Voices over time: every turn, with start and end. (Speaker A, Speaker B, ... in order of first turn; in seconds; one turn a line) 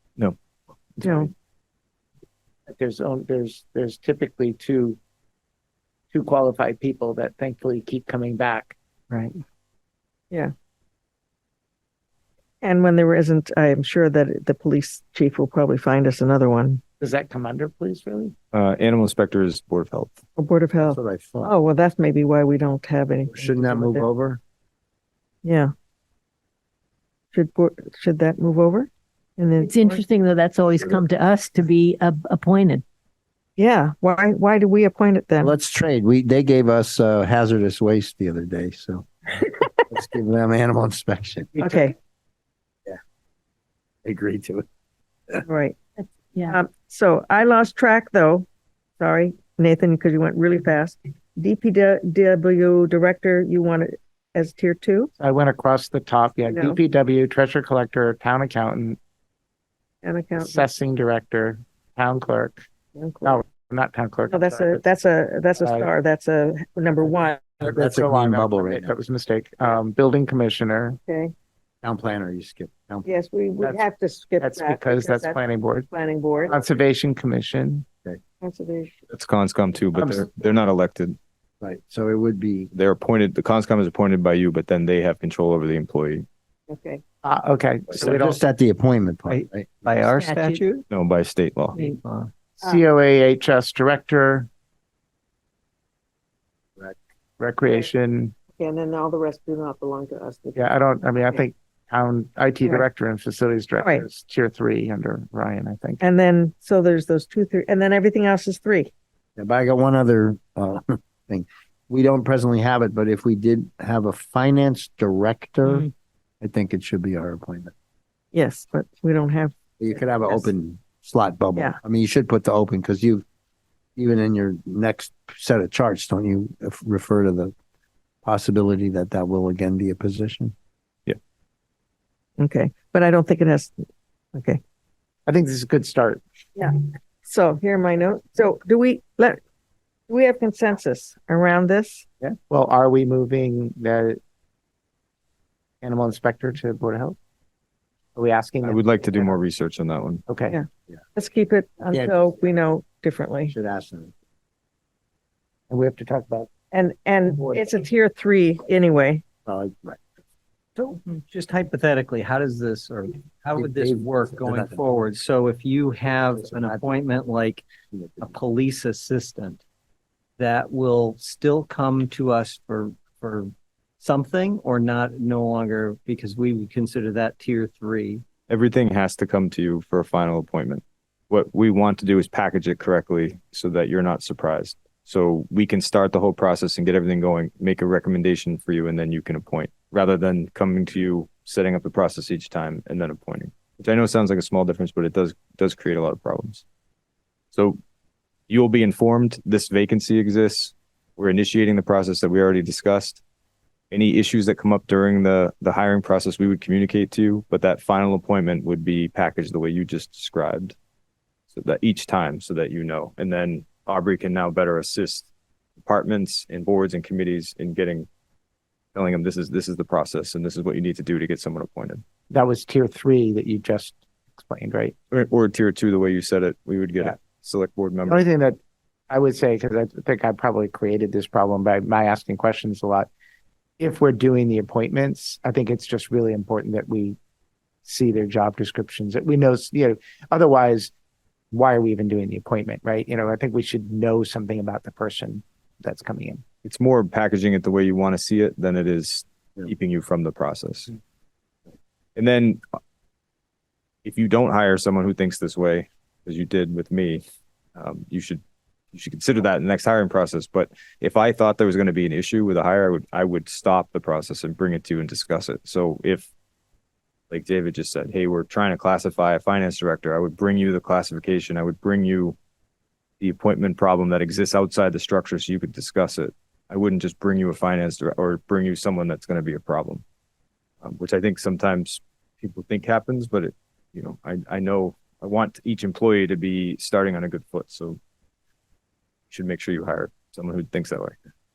Speaker A: 1.0-1.3
Speaker B: 2.7-5.0
Speaker B: 6.1-9.3
Speaker A: 12.6-16.8
Speaker B: 17.0-18.3
Speaker C: 18.5-20.2
Speaker A: 20.4-24.1
Speaker D: 20.8-21.5
Speaker D: 23.3-24.4
Speaker A: 25.4-25.7
Speaker A: 27.3-30.0
Speaker E: 29.6-32.8
Speaker A: 33.6-35.5
Speaker D: 35.4-39.1
Speaker D: 39.9-41.6
Speaker A: 41.6-41.9
Speaker D: 44.0-44.6
Speaker A: 45.4-45.8
Speaker A: 46.5-48.5
Speaker A: 49.0-55.1
Speaker B: 55.2-59.0
Speaker A: 56.5-56.8
Speaker A: 60.0-60.6
Speaker B: 60.4-62.6
Speaker A: 62.9-63.4
Speaker B: 63.2-64.8
Speaker A: 64.3-67.6
Speaker B: 65.6-65.9
Speaker D: 67.6-68.9
Speaker B: 67.6-71.0
Speaker A: 71.1-71.3
Speaker D: 71.8-73.1
Speaker A: 73.0-76.6
Speaker B: 74.4-75.9
Speaker B: 76.5-77.8
Speaker A: 78.4-78.9
Speaker C: 79.1-81.2
Speaker B: 79.9-80.3
Speaker D: 81.6-82.7
Speaker C: 82.7-86.2
Speaker A: 86.7-87.0
Speaker B: 87.2-88.4
Speaker D: 88.0-90.0
Speaker F: 89.2-90.8
Speaker E: 90.1-90.6
Speaker C: 90.9-91.8
Speaker F: 91.7-92.3
Speaker B: 92.6-94.5
Speaker B: 97.4-98.3
Speaker A: 98.5-100.6
Speaker B: 100.5-106.0
Speaker A: 103.8-104.0
Speaker A: 106.0-108.9
Speaker D: 109.4-115.9
Speaker D: 116.4-117.7
Speaker A: 118.3-120.5
Speaker D: 119.8-123.2
Speaker D: 124.0-127.5
Speaker D: 128.2-130.5
Speaker A: 132.4-134.6
Speaker B: 135.2-136.2
Speaker A: 136.6-139.4
Speaker A: 140.1-142.1
Speaker B: 142.2-144.2
Speaker B: 145.8-147.2
Speaker B: 148.1-149.3
Speaker C: 148.6-150.2
Speaker B: 150.3-150.6
Speaker A: 150.5-153.5
Speaker D: 151.9-152.3
Speaker D: 153.5-154.1
Speaker B: 155.7-156.5
Speaker A: 156.7-159.2
Speaker D: 159.4-160.0
Speaker F: 160.8-167.6
Speaker D: 163.6-164.9
Speaker D: 166.4-166.9
Speaker D: 167.9-168.3
Speaker F: 168.2-169.6
Speaker F: 170.4-178.2
Speaker C: 178.5-196.6
Speaker C: 197.5-197.8
Speaker C: 198.5-203.2
Speaker C: 203.9-210.8
Speaker C: 211.5-215.3
Speaker C: 215.8-218.1
Speaker C: 218.9-222.0
Speaker B: 222.3-224.9
Speaker C: 225.1-228.2
Speaker B: 228.1-228.6
Speaker B: 229.1-233.1
Speaker B: 233.8-237.2
Speaker B: 237.8-240.9
Speaker B: 241.5-246.4
Speaker C: 246.6-250.9
Speaker C: 252.2-252.6
Speaker C: 254.0-257.2
Speaker C: 257.8-258.4
Speaker C: 258.9-266.3
Speaker C: 267.3-272.4
Speaker C: 273.2-280.0
Speaker C: 280.8-288.0
Speaker C: 289.3-291.1